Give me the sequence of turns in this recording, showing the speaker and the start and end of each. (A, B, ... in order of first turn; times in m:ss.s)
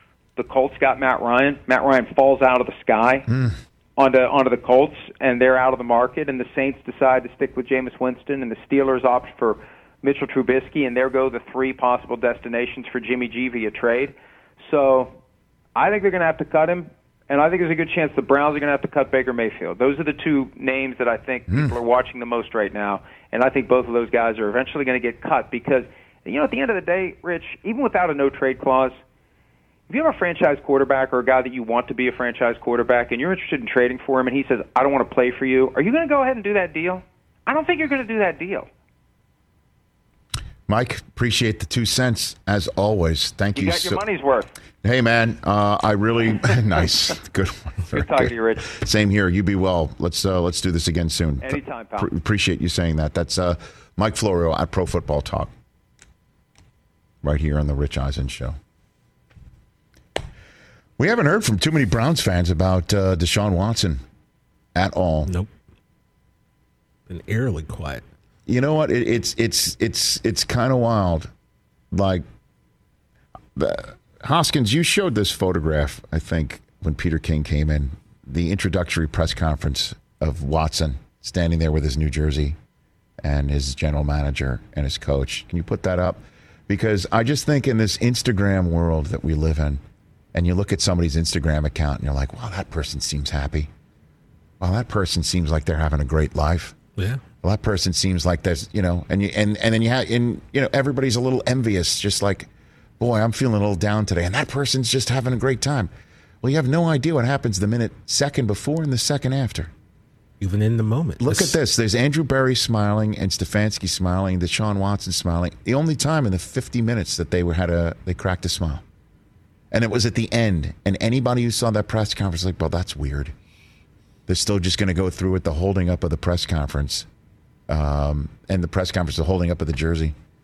0:00.4-0:03.3 A
0:03.3-0:03.5 B
0:04.0-0:15.1 A
0:15.8-0:29.0 A
0:21.5-0:21.7 B
0:29.9-0:38.7 A
0:40.7-0:44.0 B
0:43.5-0:44.5 A
0:44.8-0:55.5 B
0:47.9-0:48.7 A
0:51.4-0:52.1 A
0:57.2-0:58.6 B
1:01.0-1:04.0 B
1:04.7-1:05.3 B
1:07.1-1:08.0 C
1:08.5-1:11.3 B
1:11.9-1:12.2 B
1:13.5-1:22.6 B
1:23.2-1:29.8 B
1:30.3-1:33.7 B
1:34.6-1:36.8 B
1:37.0-1:37.2 C
1:37.4-1:45.9 B
1:46.4-1:49.7 B
1:50.4-1:51.6 C
1:51.2-1:58.8 B
1:59.7-2:03.3 B
2:04.3-2:07.1 B
2:07.7-2:10.1 B